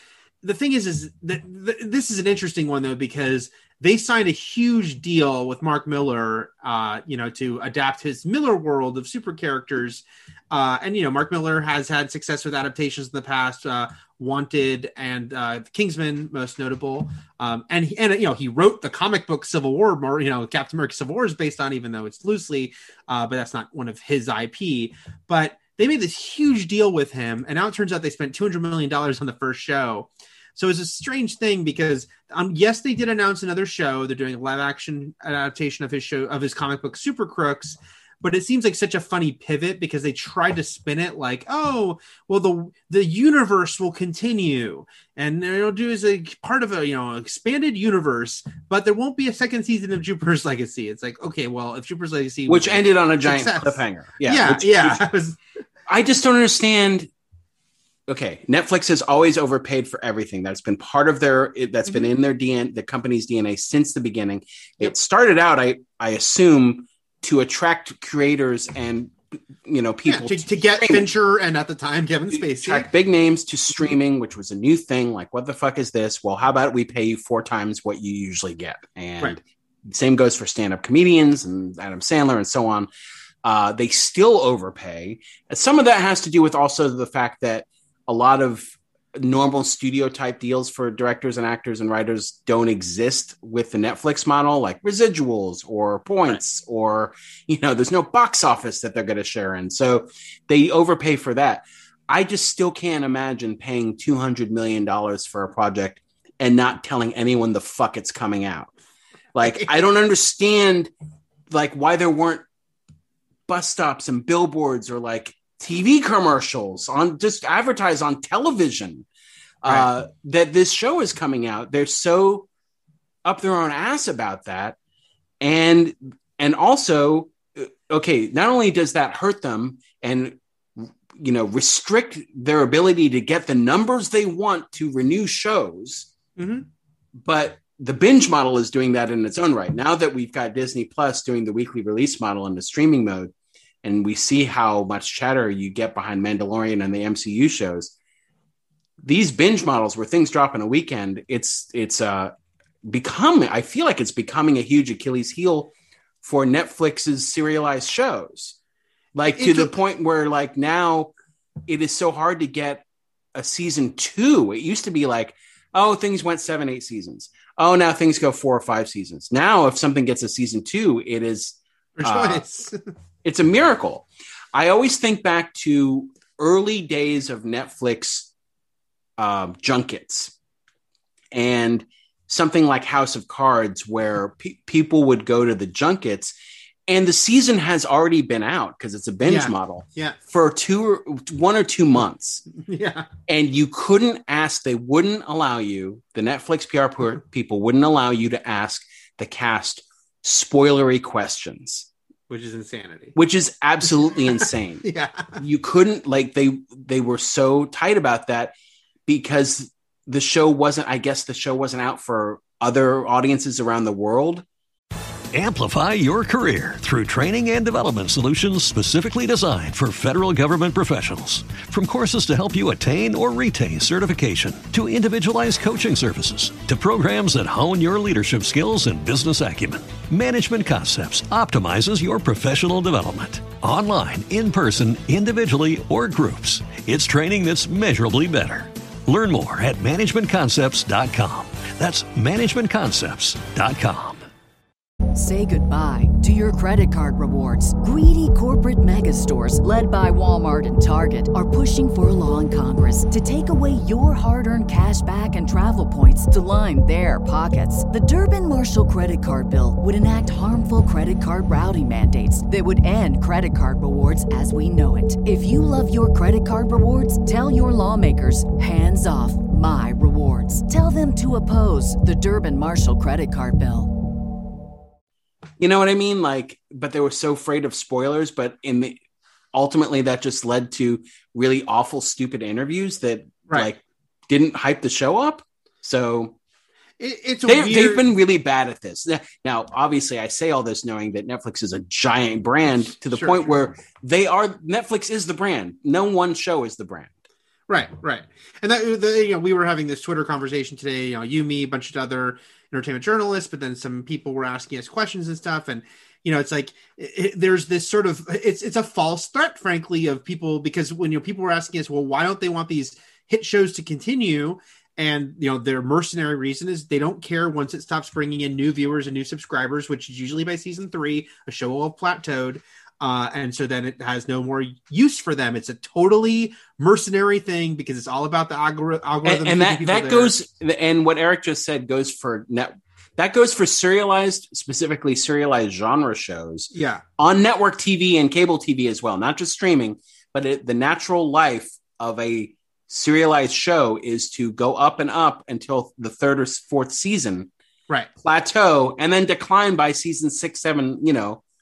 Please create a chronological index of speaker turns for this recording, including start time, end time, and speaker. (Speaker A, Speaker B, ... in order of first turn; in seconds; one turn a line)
Speaker A: 0.4-55.4
Speaker B: 52.5-55.0
Speaker B: 55.9-57.1
Speaker B: 58.1-71.1
Speaker A: 70.0-72.9
Speaker B: 72.3-82.9
Speaker B: 83.4-108.7
Speaker B: 109.3-110.9
Speaker A: 109.4-109.7
Speaker B: 111.5-112.4
Speaker B: 113.5-119.0
Speaker B: 119.6-122.5
Speaker B: 123.2-124.8
Speaker B: 125.4-136.1
Speaker A: 136.4-136.7
Speaker B: 137.2-143.3
Speaker B: 143.8-147.9
Speaker B: 149.0-152.3
Speaker B: 152.9-158.6
Speaker B: 159.1-161.1
Speaker A: 159.2-159.7
Speaker B: 161.7-172.4
Speaker A: 172.0-172.8
Speaker B: 173.2-178.3
Speaker B: 179.2-180.3
Speaker B: 181.3-186.3
Speaker B: 186.9-192.5
Speaker A: 189.2-190.2
Speaker A: 192.6-193.1
Speaker B: 193.3-201.9
Speaker A: 202.3-203.1
Speaker B: 203.1-204.8
Speaker A: 204.8-205.4
Speaker B: 205.3-208.5
Speaker B: 209.1-214.4
Speaker C: 215.3-244.2
Speaker D: 245.1-273.9
Speaker B: 275.6-279.0
Speaker B: 279.5-286.3
Speaker A: 287.0-288.0
Speaker B: 287.4-297.1
Speaker A: 293.1-293.5
Speaker A: 297.7-330.3
Speaker B: 329.2-347.5
Speaker A: 336.7-337.0
Speaker B: 348.2-351.4